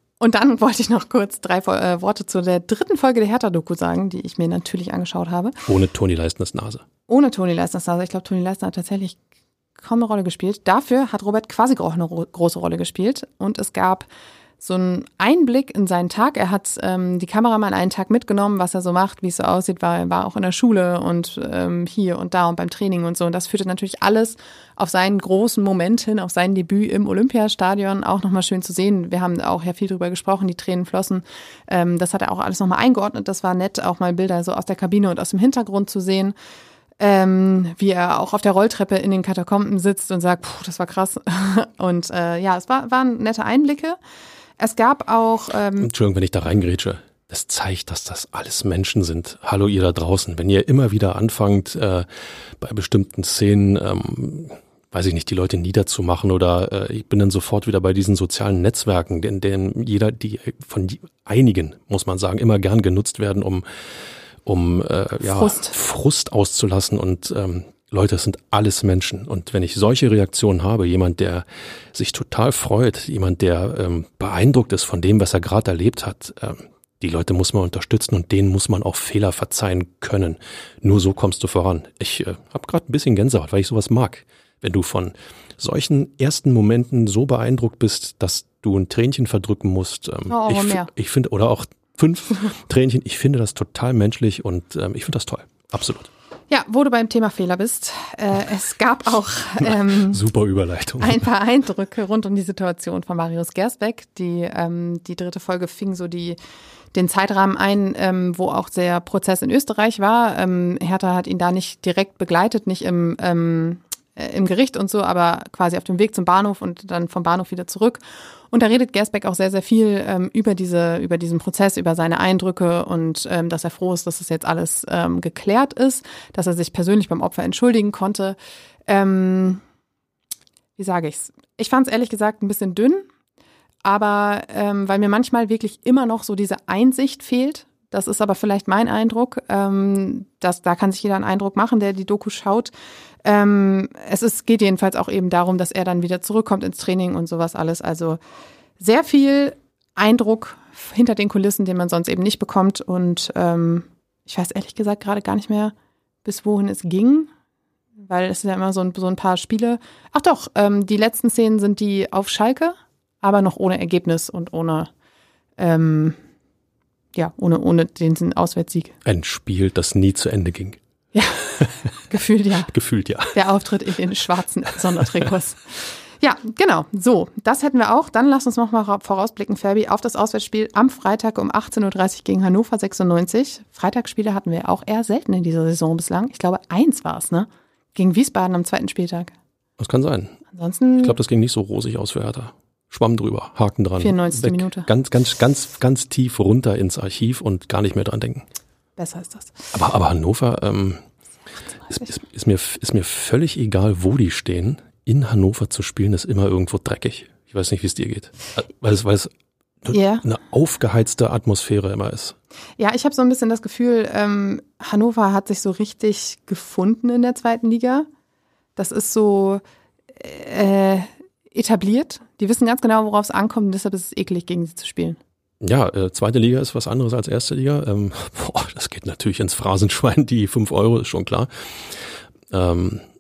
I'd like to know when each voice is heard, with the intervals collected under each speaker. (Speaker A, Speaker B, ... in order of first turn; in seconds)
Speaker A: 0.2-5.6, 7.1-9.2, 9.8-14.1, 14.6-36.4, 37.0-44.0, 44.6-45.9, 65.3-65.8, 90.3-90.9, 96.5-100.2, 101.0-106.4, 106.9-118.0, 118.5-128.4, 128.9-129.6, 130.8-133.1, 133.8-142.7, 143.2-148.2, 148.8-155.7, 156.2-157.3, 158.0-164.9, 165.6-166.2, 167.2-169.0, 171.1-172.7, 173.3-189.3, 190.5-191.2, 194.0-194.9, 199.0-199.7, 209.9-210.2, 212.8-218.1, 218.8-219.6, 220.2-225.2
Speaker B: 5.7-6.8, 45.8-52.1, 52.6-63.6, 64.5-96.1, 99.6-101.3, 169.1-170.8, 171.4-171.7, 172.7-173.4, 189.8-190.4, 191.0-198.4, 199.7-201.0, 201.9-209.3, 209.8-212.4, 225.6-233.0